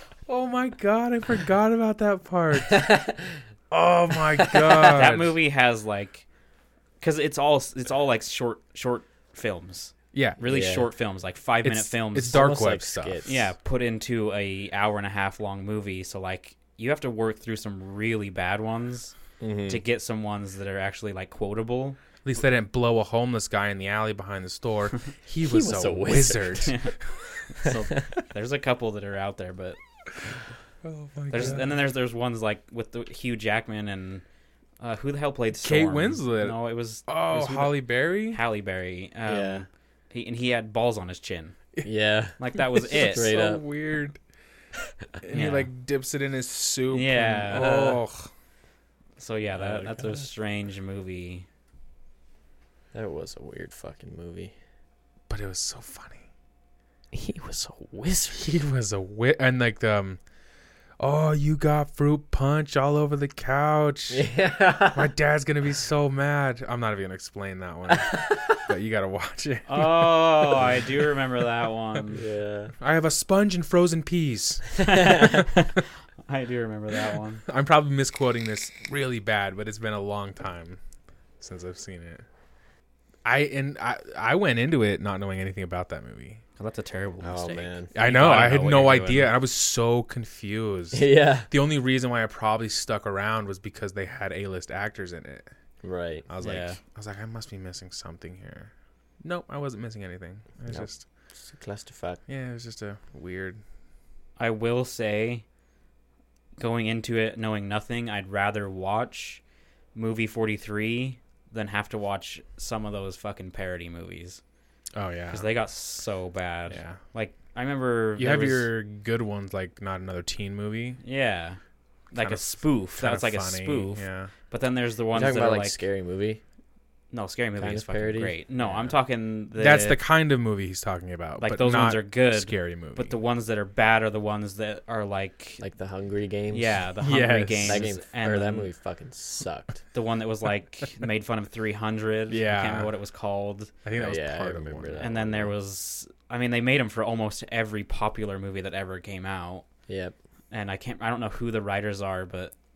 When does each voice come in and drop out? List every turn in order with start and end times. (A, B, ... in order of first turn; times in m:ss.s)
0:00.3-0:02.9 A
0:02.7-0:03.4 B
0:03.7-0:05.3 A
0:04.4-0:04.8 B
0:04.8-0:06.2 C
0:07.0-0:12.4 C
0:10.1-0:10.4 A
0:10.4-0:10.9 B
0:11.6-0:13.3 A
0:12.2-0:13.4 B
0:13.2-0:19.1 C
0:19.4-0:19.8 B
0:19.7-0:22.0 C
0:22.2-0:27.2 A
0:25.4-0:26.8 B
0:26.6-0:26.9 C
0:27.5-0:29.8 C
0:30.8-0:31.7 A
0:31.3-0:34.2 C
0:34.8-0:41.6 C
0:35.5-0:38.4 A
0:39.2-0:39.6 B
0:41.8-0:43.6 B
0:42.4-0:43.3 C
0:42.7-0:44.2 A
0:45.2-0:48.3 A
0:45.3-0:45.7 C
0:46.9-0:47.8 C
0:47.5-0:48.0 B
0:49.2-0:51.4 C
0:49.5-0:50.2 B
0:52.9-0:54.5 B
0:55.3-0:56.2 A
0:57.1-0:58.4 B
0:58.3-1:00.2 A
1:01.0-1:04.3 A
1:04.1-1:05.1 B
1:04.9-1:10.3 A
1:08.0-1:08.5 B
1:09.7-1:12.2 C
1:12.1-1:12.7 B
1:12.8-1:15.0 A
1:14.8-1:17.4 C
1:17.4-1:20.8 A
1:21.4-1:22.2 A
1:23.2-1:26.4 A
1:26.6-1:29.3 C
1:27.2-1:27.9 B
1:27.9-1:35.5 A
1:30.9-1:31.5 B
1:35.8-1:36.2 B
1:36.3-1:41.0 A
1:36.4-1:36.8 C
1:40.7-1:42.2 B
1:42.3-1:43.6 A
1:44.4-1:45.4 C
1:46.6-1:49.4 C
1:49.9-1:54.4 C
1:54.9-1:55.5 A
1:55.3-1:58.7 C
1:56.7-1:57.0 A
1:58.2-2:01.0 A
2:01.0-2:01.6 C
2:02.1-2:05.8 C
2:02.1-2:04.3 A
2:05.1-2:06.4 B
2:07.1-2:10.0 C
2:07.6-2:09.0 B
2:09.6-2:13.1 A
2:11.4-2:15.6 C
2:15.6-2:16.8 B
2:16.5-2:18.7 C
2:17.0-2:17.9 A
2:17.6-2:19.8 B
2:19.9-2:23.7 C
2:22.3-2:22.9 A
2:23.8-2:25.0 A
2:24.0-2:25.5 B
2:25.0-2:29.6 C
2:29.9-2:30.2 B
2:30.5-2:32.5 C